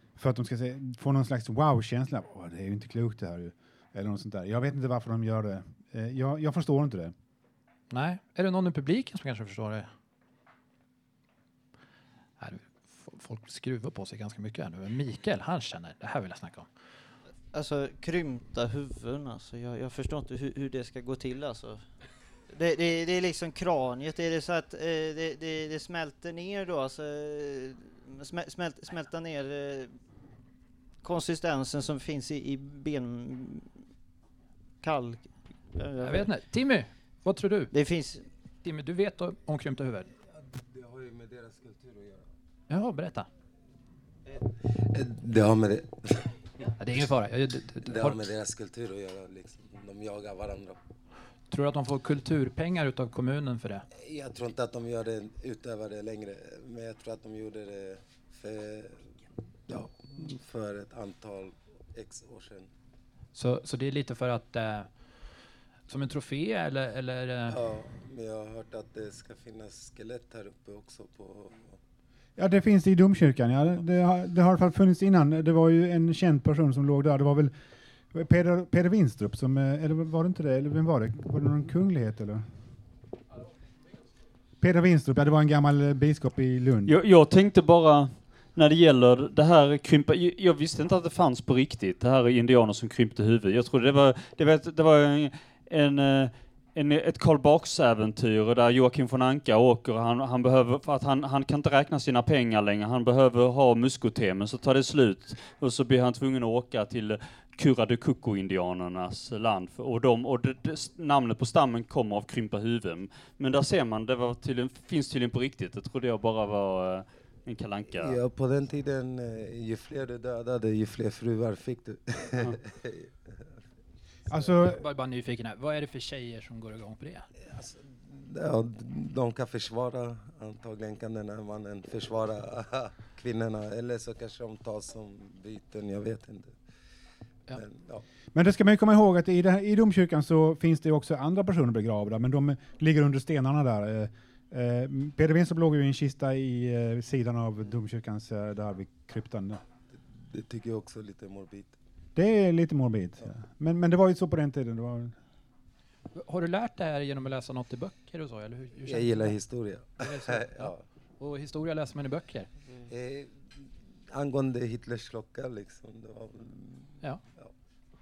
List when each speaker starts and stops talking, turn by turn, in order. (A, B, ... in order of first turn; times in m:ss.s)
0:00.2-0:07.1 A
0:07.9-0:09.9 B
0:12.4-0:16.7 B
0:17.5-0:21.8 C
0:22.5-0:29.9 C
0:31.0-0:33.7 C
0:34.8-0:36.3 C
0:36.0-0:37.7 B
0:37.7-0:38.2 C
0:38.6-0:40.1 B
0:40.3-0:42.3 D
0:42.7-0:43.3 B
0:44.4-0:46.3 D
0:46.8-0:48.2 B
0:47.8-0:50.8 D
0:51.5-0:53.8 B
0:53.9-0:59.2 D
0:59.7-1:02.7 D
1:03.3-1:05.3 B
1:05.9-1:07.6 B
1:07.5-1:11.8 D
1:12.4-1:17.5 A
1:18.1-1:22.4 A
1:24.6-1:26.9 A
1:26.8-1:58.2 E
1:57.9-2:03.1 D
2:04.3-2:04.8 A
2:04.7-2:07.3 B
2:07.5-2:16.6 D
2:17.5-2:18.0 D
2:18.3-2:29.6 A
2:30.2-2:31.8 D
2:32.1-2:35.2 A
2:36.1-2:39.4 B
2:38.8-2:40.8 D
2:39.9-2:42.5 B
2:42.9-2:43.5 D
2:44.1-2:47.5 D